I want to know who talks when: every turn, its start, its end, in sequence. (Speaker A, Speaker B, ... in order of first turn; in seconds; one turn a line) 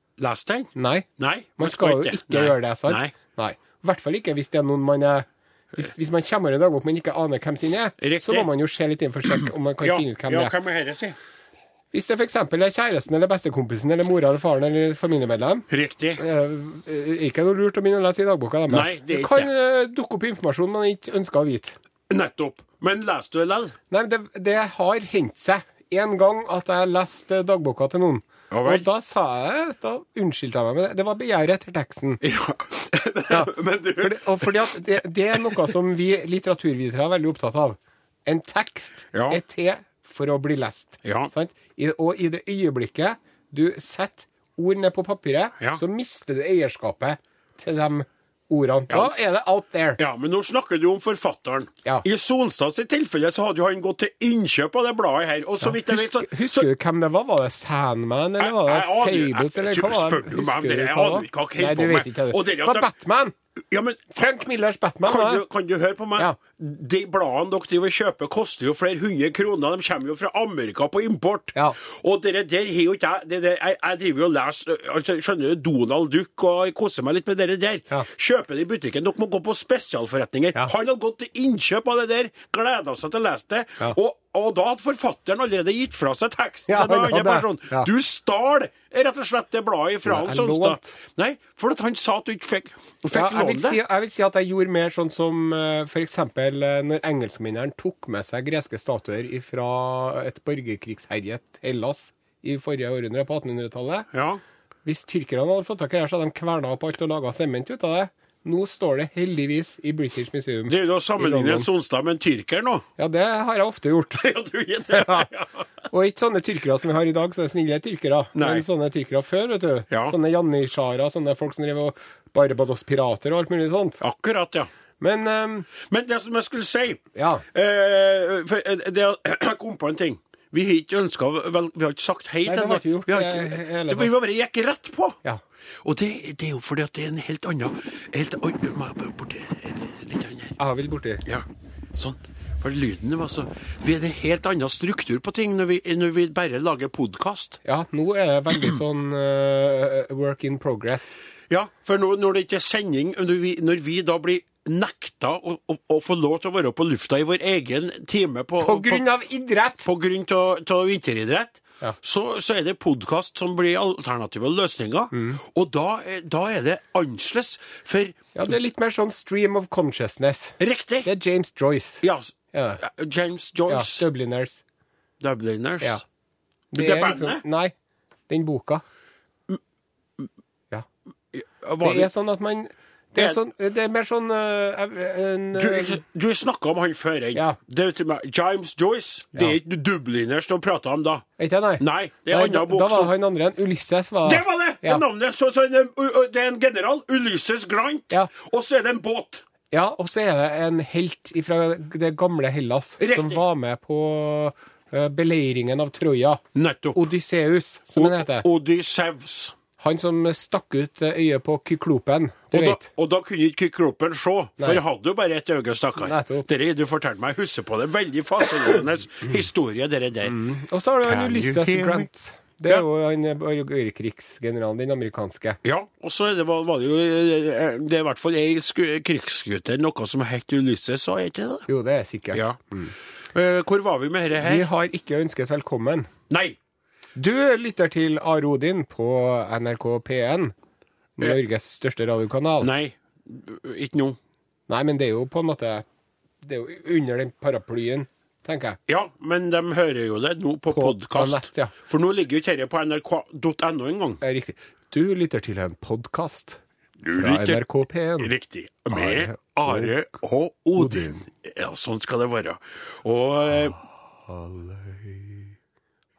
Speaker A: 0.2-3.1
Speaker B: 0.7-1.1
Speaker B: 1.6-10.5
Speaker A: 8.0-8.5
Speaker A: 9.4-11.2
Speaker B: 11.9-21.8
Speaker A: 15.7-16.2
Speaker A: 18.7-19.5
Speaker A: 22.1-23.8
Speaker B: 23.9-32.2
Speaker A: 28.5-28.9
Speaker A: 32.2-34.7
Speaker B: 33.3-50.0
Speaker A: 39.1-39.4
Speaker A: 41.0-41.3
Speaker A: 50.0-56.7
Speaker B: 55.6-63.3
Speaker A: 58.4-62.9
Speaker A: 63.7-64.2
Speaker B: 64.1-65.4
Speaker A: 65.0-93.8
Speaker B: 86.7-87.9
Speaker B: 90.0-90.9
Speaker B: 93.1-104.1
Speaker A: 104.1-104.4
Speaker B: 104.8-111.7
Speaker A: 110.7-112.8
Speaker B: 113.0-114.2
Speaker A: 114.2-115.7
Speaker B: 114.9-115.3
Speaker B: 115.9-124.0
Speaker A: 118.3-118.6
Speaker A: 119.9-120.2
Speaker A: 124.0-124.7
Speaker B: 125.0-125.7
Speaker A: 125.8-135.2
Speaker B: 127.1-127.4
Speaker B: 132.4-134.1
Speaker A: 135.8-140.6
Speaker B: 140.6-141.2
Speaker A: 141.2-147.6
Speaker B: 147.6-151.1
Speaker A: 151.5-159.0
Speaker B: 158.6-159.8
Speaker A: 159.8-168.2
Speaker B: 165.1-165.4
Speaker B: 168.3-172.8
Speaker A: 170.6-171.1
Speaker A: 172.0-174.1
Speaker B: 173.7-174.6
Speaker A: 175.2-176.0
Speaker B: 176.7-177.7
Speaker A: 176.7-177.4
Speaker B: 178.3-178.8
Speaker A: 181.3-182.1
Speaker B: 181.8-186.0
Speaker A: 185.5-191.2
Speaker B: 191.4-195.0
Speaker A: 191.8-193.1
Speaker A: 194.2-199.4
Speaker B: 199.7-206.4
Speaker A: 203.0-203.4
Speaker A: 206.5-207.1
Speaker B: 206.9-208.5
Speaker A: 207.9-209.5
Speaker B: 209.8-212.8
Speaker A: 212.5-220.4
Speaker B: 216.0-216.5
Speaker B: 220.2-225.6
Speaker A: 221.1-222.1
Speaker A: 225.6-231.7
Speaker B: 231.7-232.9
Speaker A: 232.3-232.6
Speaker A: 233.3-234.6
Speaker B: 234.4-236.1
Speaker A: 236.3-236.6
Speaker B: 237.2-240.5
Speaker B: 241.2-242.7
Speaker A: 242.6-244.2
Speaker B: 244.7-245.8
Speaker B: 246.4-248.8
Speaker A: 248.9-254.2
Speaker B: 250.7-251.7
Speaker B: 254.2-256.6
Speaker A: 257.0-257.6
Speaker B: 257.1-258.3
Speaker A: 258.2-263.8
Speaker B: 258.9-259.9
Speaker B: 260.8-261.1
Speaker B: 264.2-265.4